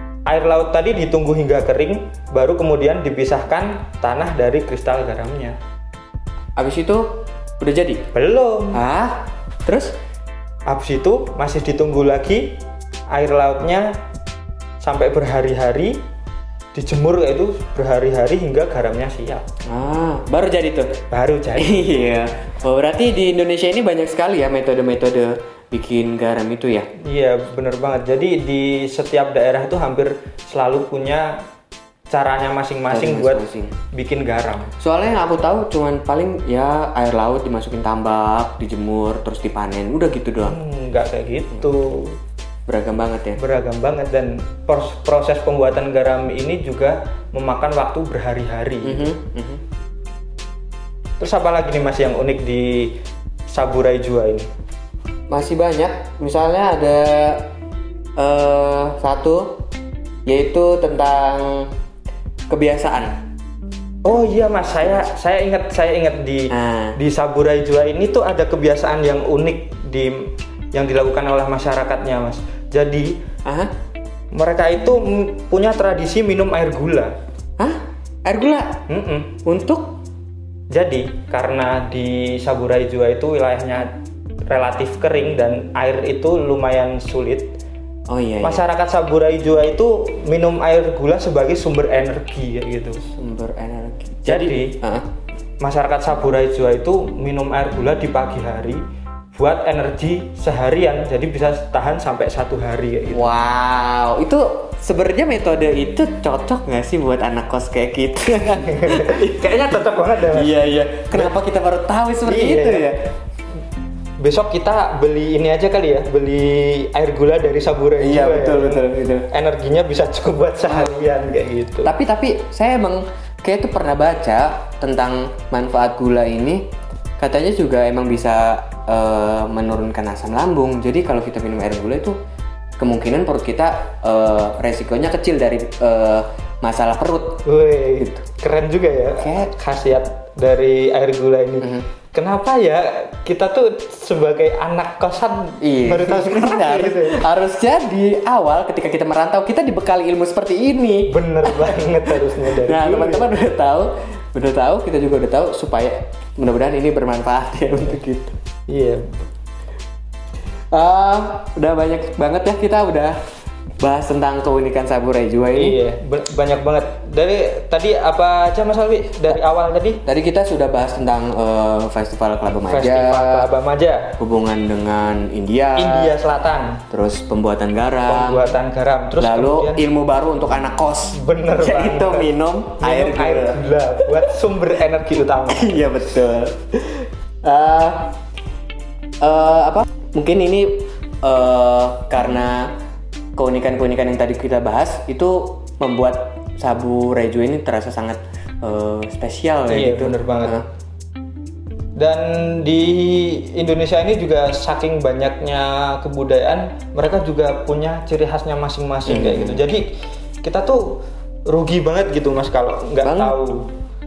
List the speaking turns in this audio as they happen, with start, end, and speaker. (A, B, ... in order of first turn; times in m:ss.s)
0:00.2-0:05.6 A
0:06.6-0:08.0 B
0:08.1-0:08.8 A
0:08.7-0:10.0 B
0:10.7-0:12.6 A
0:13.1-0:13.9 A
0:14.8-0:16.0 A
0:16.7-0:19.4 A
0:19.6-0:21.0 B
0:21.1-0:21.9 A
0:21.6-0:26.9 B
0:27.0-0:31.3 A
0:32.1-0:34.7 A
0:32.9-0:33.8 B
0:34.8-0:40.6 B
0:40.4-0:42.2 A
0:42.7-0:43.4 B
0:43.4-0:49.1 A
0:48.8-0:49.6 B
0:51.2-0:53.0 A
0:53.5-0:54.4 A
0:55.3-0:57.5 B
0:58.2-0:59.6 B
1:00.2-1:01.7 B
1:02.5-1:03.2 B
1:04.0-1:13.2 A
1:06.5-1:07.0 B
1:13.4-1:13.7 B
1:14.3-1:17.1 A
1:17.6-1:18.8 B
1:18.9-1:19.4 A
1:19.4-1:20.0 B
1:20.7-1:23.9 A
1:24.5-1:27.6 A
1:28.1-1:28.6 B
1:28.4-1:33.0 A
1:33.1-1:35.0 B
1:34.2-1:34.8 A
1:35.6-1:38.8 A
1:39.3-1:43.3 A
1:43.1-1:49.7 B
1:48.7-1:51.3 A
1:50.3-1:53.1 B
1:52.2-1:53.0 A
1:54.2-2:01.9 A
1:58.0-1:59.3 B
2:00.7-2:01.0 B
2:01.8-2:06.7 B
2:07.2-2:12.2 B
2:12.8-2:17.4 B
2:17.4-2:27.2 A
2:19.1-2:19.5 B
2:21.6-2:21.9 B
2:25.6-2:38.4 B
2:31.1-2:33.3 A
2:38.7-2:39.0 A
2:40.7-2:43.2 B
2:43.8-2:45.8 B
2:45.5-2:50.0 A
2:50.0-2:53.5 B
2:52.6-2:54.1 A
2:54.2-2:56.1 B
2:55.8-2:56.8 A
2:56.9-2:58.5 B
2:58.1-2:59.8 A
2:59.2-3:03.6 B
3:01.1-3:06.0 A
3:05.5-3:08.1 B
3:09.2-3:12.7 B
3:13.4-3:20.6 B
3:19.7-3:20.6 A
3:22.0-3:29.8 A
3:29.1-3:29.6 B
3:30.4-3:33.7 A
3:33.0-3:33.4 B